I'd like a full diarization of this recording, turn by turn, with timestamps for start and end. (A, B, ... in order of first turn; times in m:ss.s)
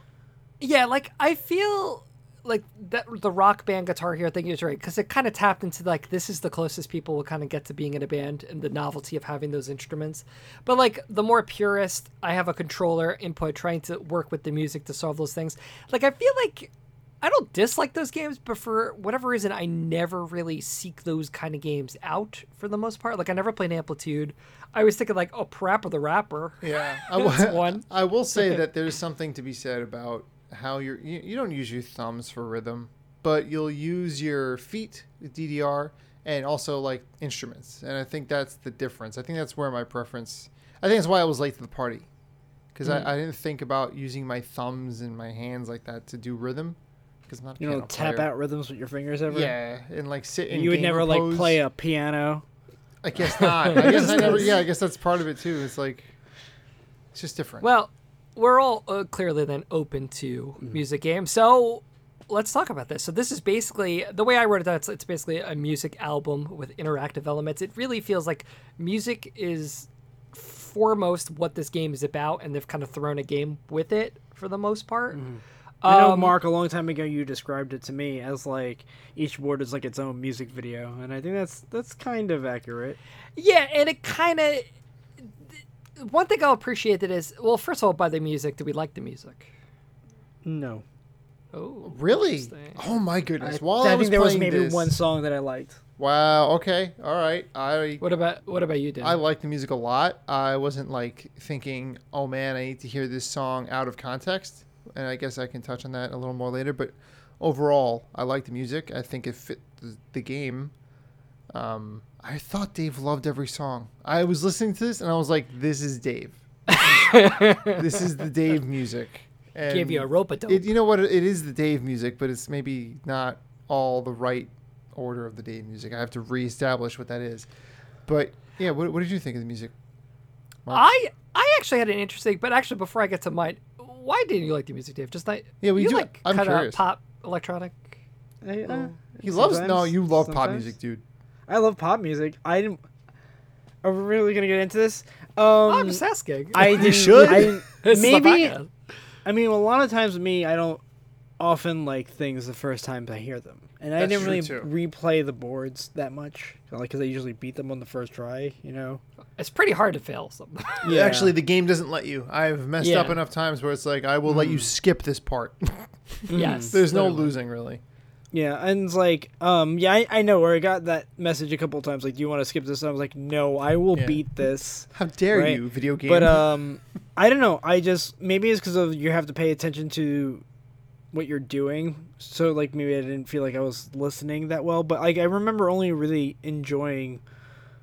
0:00.6-0:16.7 A
0:17.2-0:27.8 A
0:26.6-0:42.1 B
0:42.7-0:48.3 B
0:47.6-0:49.5 C
0:49.3-0:51.6 B
0:50.5-0:52.4 C
0:53.0-0:56.1 B
0:53.6-0:54.2 A
0:53.8-0:54.4 C
0:57.1-0:57.7 B
0:57.6-1:15.2 A
1:15.1-1:23.0 C
1:15.8-1:16.3 A
1:23.4-1:24.7 A
1:26.0-1:29.5 A
1:30.4-1:30.8 C
1:31.5-1:32.8 A
1:31.8-1:35.0 B
1:33.4-1:35.8 C
1:36.0-1:38.0 B
1:38.0-1:39.2 A
1:39.0-1:50.7 B
1:51.5-2:07.5 B
1:56.7-1:57.8 A
1:59.7-2:00.7 A
2:08.1-2:09.7 B
2:10.7-2:17.9 A
2:15.6-2:16.8 B
2:18.4-2:20.7 C
2:19.2-2:21.0 B
2:21.5-2:22.8 C
2:23.8-2:26.0 C
2:25.7-2:28.7 A
2:26.5-2:28.6 C
2:26.6-2:27.6 B
2:29.2-2:30.8 C
2:31.4-2:39.0 C
2:34.0-2:34.7 B
2:39.4-2:40.8 A
2:40.8-2:41.4 C
2:40.8-2:47.8 B
2:42.8-2:43.2 A
2:44.3-2:44.7 C
2:46.3-2:47.3 C
2:46.3-2:46.8 A
2:48.3-3:00.4 C
2:53.9-2:54.2 B
2:54.9-2:56.4 B
3:01.1-3:07.2 C